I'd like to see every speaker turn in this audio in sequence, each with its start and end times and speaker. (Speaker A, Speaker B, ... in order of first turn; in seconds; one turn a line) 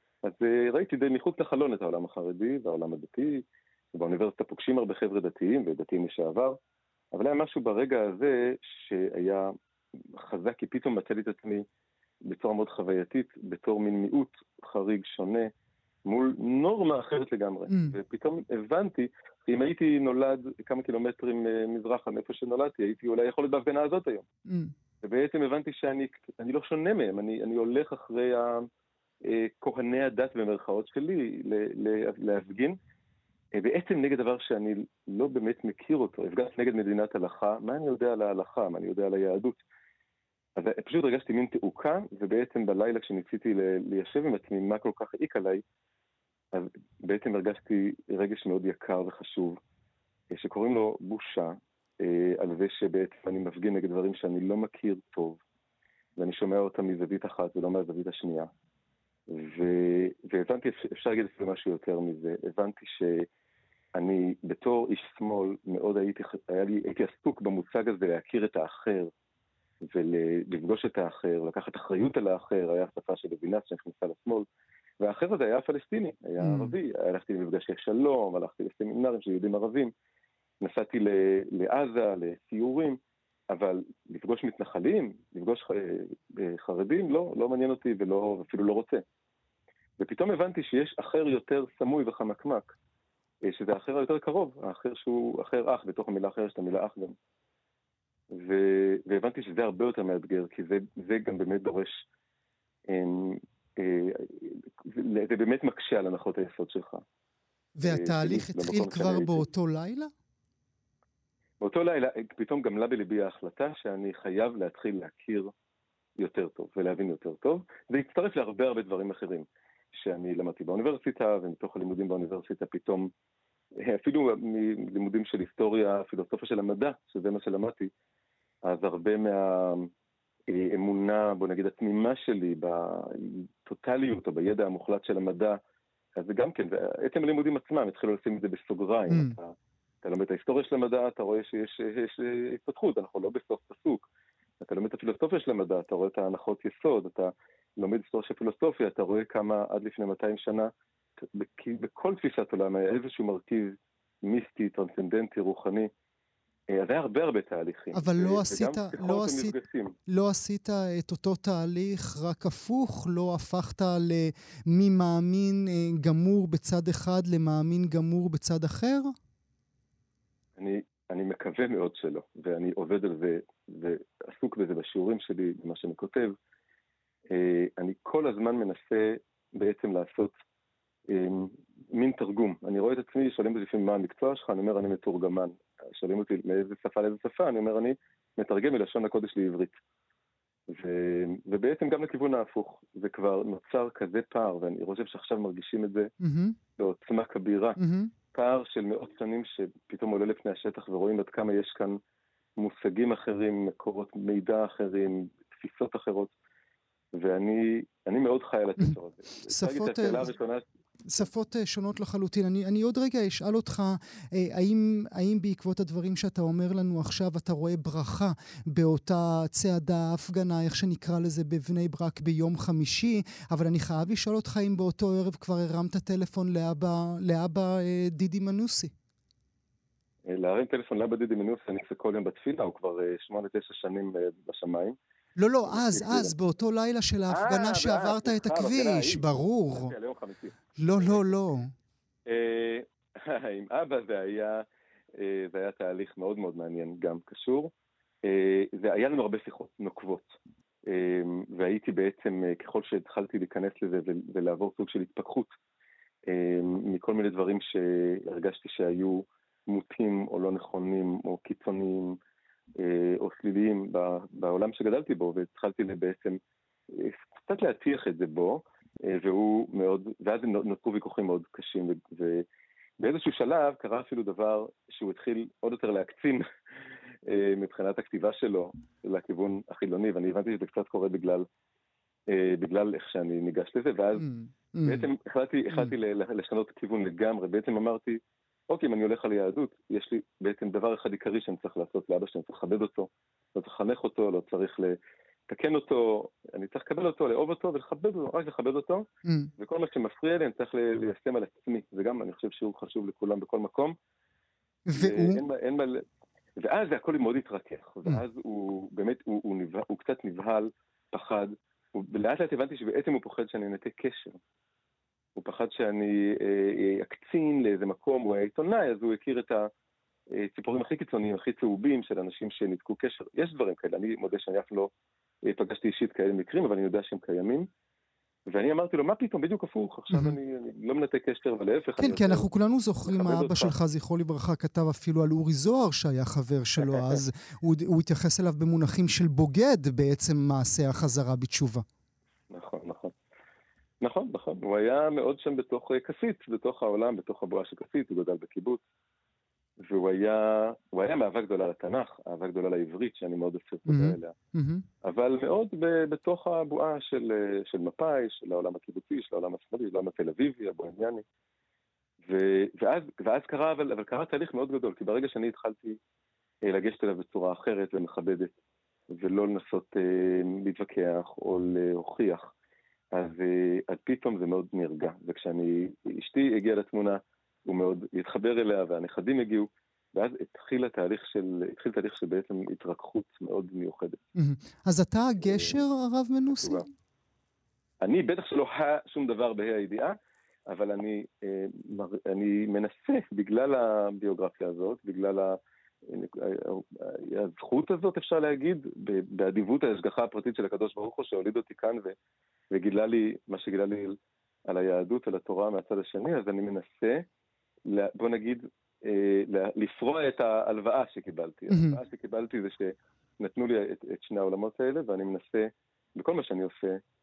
Speaker A: 0.2-3.4
Speaker A: 3.9-6.6
Speaker A: 7.1-9.5
Speaker A: 10.2-11.7
Speaker A: 12.2-15.5
Speaker A: 16.1-24.3
Speaker B: 17.7-17.9
Speaker B: 24.5-24.7
Speaker A: 25.0-28.7
Speaker A: 29.2-32.8
Speaker A: 33.5-39.6
Speaker A: 40.6-45.6
Speaker A: 46.5-49.6
Speaker A: 50.3-55.4
Speaker A: 56.2-58.5
Speaker A: 59.3-63.3
Speaker A: 64.0-69.1
Speaker A: 69.8-74.5
Speaker A: 75.0-79.9
Speaker B: 76.4-76.7
Speaker A: 80.6-83.0
Speaker A: 83.5-89.0
Speaker A: 90.0-92.7
Speaker A: 93.4-97.2
Speaker A: 98.3-102.1
Speaker A: 102.9-107.0
Speaker B: 107.8-110.1
Speaker A: 107.8-109.5
Speaker A: 111.6-115.5
Speaker A: 116.2-123.1
Speaker A: 123.8-127.9
Speaker A: 128.7-129.9
Speaker A: 130.5-135.6
Speaker A: 136.2-144.1
Speaker B: 139.1-139.3
Speaker A: 144.6-155.9
Speaker A: 156.7-160.0
Speaker B: 157.9-159.6
Speaker B: 160.1-169.2
Speaker A: 170.6-176.4
Speaker A: 177.3-180.4
Speaker A: 181.1-189.8
Speaker A: 190.7-196.1
Speaker B: 196.2-196.6
Speaker A: 196.8-197.8
Speaker B: 197.8-198.1
Speaker A: 198.3-202.0
Speaker A: 202.6-206.3
Speaker A: 207.2-210.6
Speaker B: 209.5-210.3
Speaker B: 211.1-228.9
Speaker A: 230.3-235.0
Speaker B: 235.4-239.9
Speaker A: 235.7-236.3
Speaker A: 237.3-241.2
Speaker B: 240.8-241.7
Speaker A: 242.3-247.7
Speaker A: 248.2-255.5
Speaker A: 256.3-262.2
Speaker A: 262.8-266.4
Speaker A: 266.9-272.5
Speaker A: 273.0-276.4
Speaker A: 277.3-281.5
Speaker A: 282.3-284.3
Speaker B: 284.2-285.1
Speaker A: 284.8-295.0
Speaker A: 295.5-299.1
Speaker B: 299.2-299.5
Speaker A: 299.6-303.9
Speaker B: 304.9-305.4
Speaker A: 304.9-306.0
Speaker A: 306.6-314.4
Speaker A: 315.4-319.7
Speaker A: 320.3-324.9
Speaker A: 325.4-327.7
Speaker A: 328.5-332.5
Speaker B: 330.1-330.4
Speaker B: 332.0-341.9
Speaker A: 333.1-333.7
Speaker A: 336.8-337.2
Speaker A: 342.5-343.1
Speaker A: 344.0-348.8
Speaker A: 349.8-354.4
Speaker B: 353.9-354.9
Speaker A: 355.0-361.2
Speaker A: 362.3-366.0
Speaker A: 366.6-368.5
Speaker A: 369.1-372.5
Speaker A: 373.1-384.2
Speaker B: 384.4-386.9
Speaker A: 385.4-385.8
Speaker A: 386.6-386.9
Speaker A: 388.0-390.2
Speaker A: 390.7-402.2
Speaker A: 402.7-407.3
Speaker A: 407.9-417.0
Speaker B: 411.7-412.0